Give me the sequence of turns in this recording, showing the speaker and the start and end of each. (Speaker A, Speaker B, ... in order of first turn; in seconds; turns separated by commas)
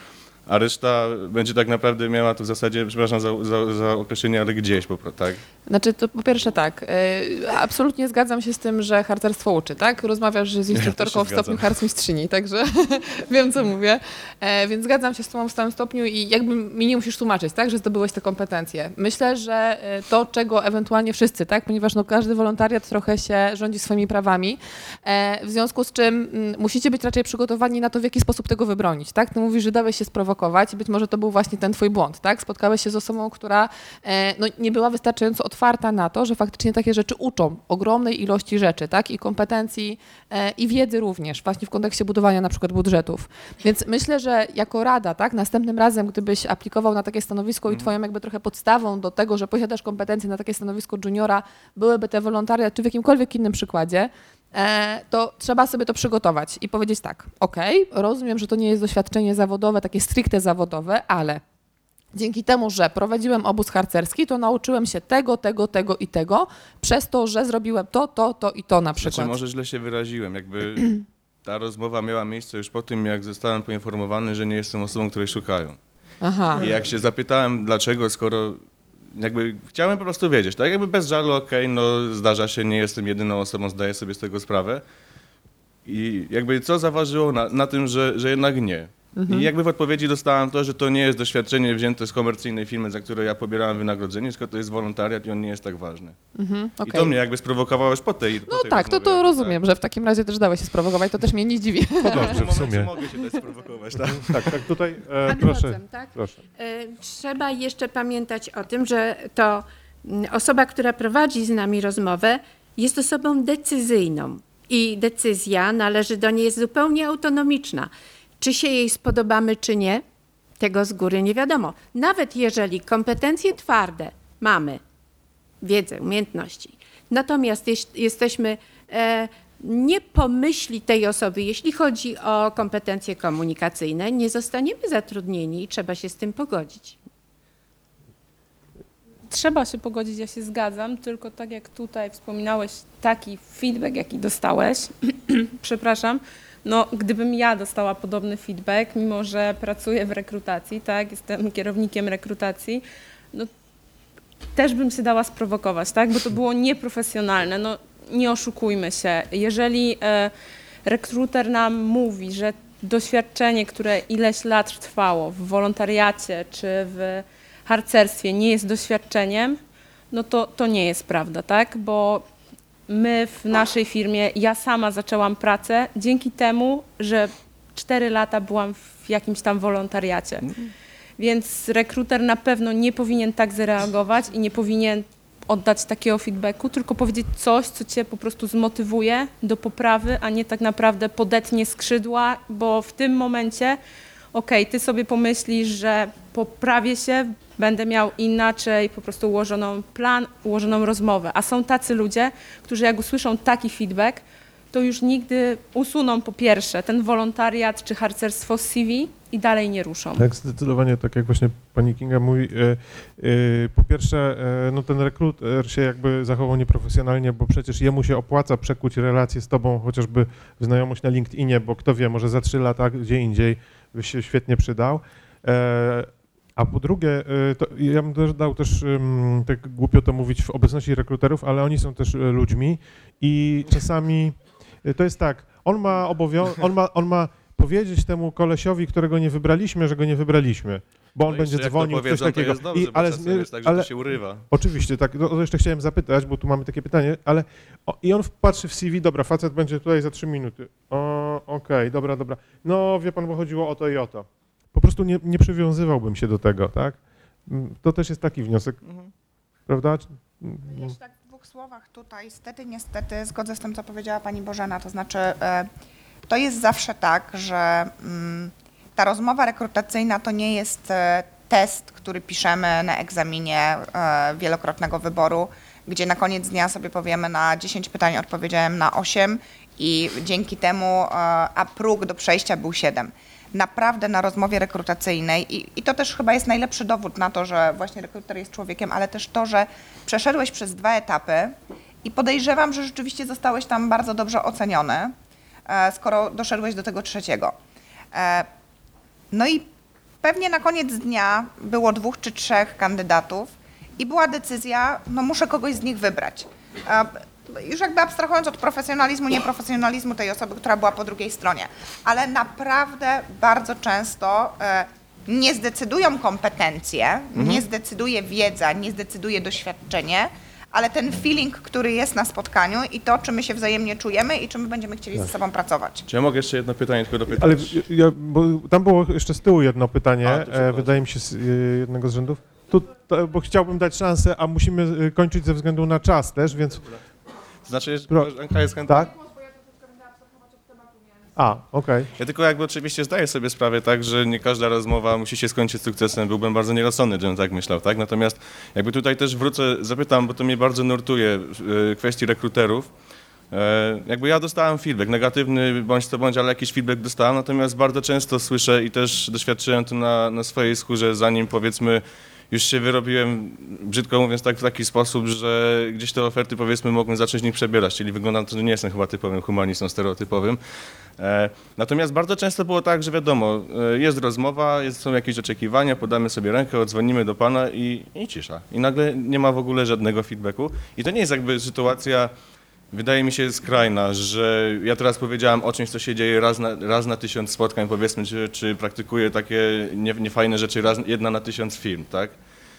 Speaker A: 0.5-5.4, Speaker B: 5.7-61.4, Speaker A: 10.7-11.6, Speaker B: 62.1-69.3, Speaker A: 69.0-70.9, Speaker A: 71.4-75.8, Speaker B: 76.2-76.7, Speaker A: 76.5-78.6, Speaker A: 79.1-84.8, Speaker A: 85.8-96.2, Speaker B: 89.1-89.5, Speaker B: 96.3-97.1, Speaker A: 96.8-99.6, Speaker B: 98.5-102.5, Speaker A: 102.0-104.6, Speaker C: 102.0-102.9, Speaker C: 104.0-106.4, Speaker D: 105.2-120.0, Speaker D: 120.6-124.8, Speaker D: 125.6-137.0, Speaker E: 139.3-153.5, Speaker E: 154.5-160.3, Speaker E: 160.8-169.6, Speaker E: 170.1-172.2, Speaker E: 172.9-180.5, Speaker E: 181.2-193.8, Speaker E: 194.3-210.2, Speaker C: 210.2-258.8, Speaker A: 241.2-244.4, Speaker A: 258.8-259.1, Speaker C: 259.7-260.9, Speaker F: 260.6-265.7, Speaker F: 266.3-295.1, Speaker F: 295.7-297.5, Speaker F: 298.1-298.5, Speaker F: 299.3-299.7, Speaker F: 300.2-326.1, Speaker A: 317.4-317.6, Speaker A: 326.1-327.8, Speaker C: 327.3-336.9, Speaker A: 330.2-331.0, Speaker A: 337.6-339.1, Speaker C: 338.8-339.1, Speaker C: 341.4-342.1, Speaker A: 342.1-352.9, Speaker A: 353.5-370.6, Speaker A: 371.2-382.3, Speaker A: 382.9-392.4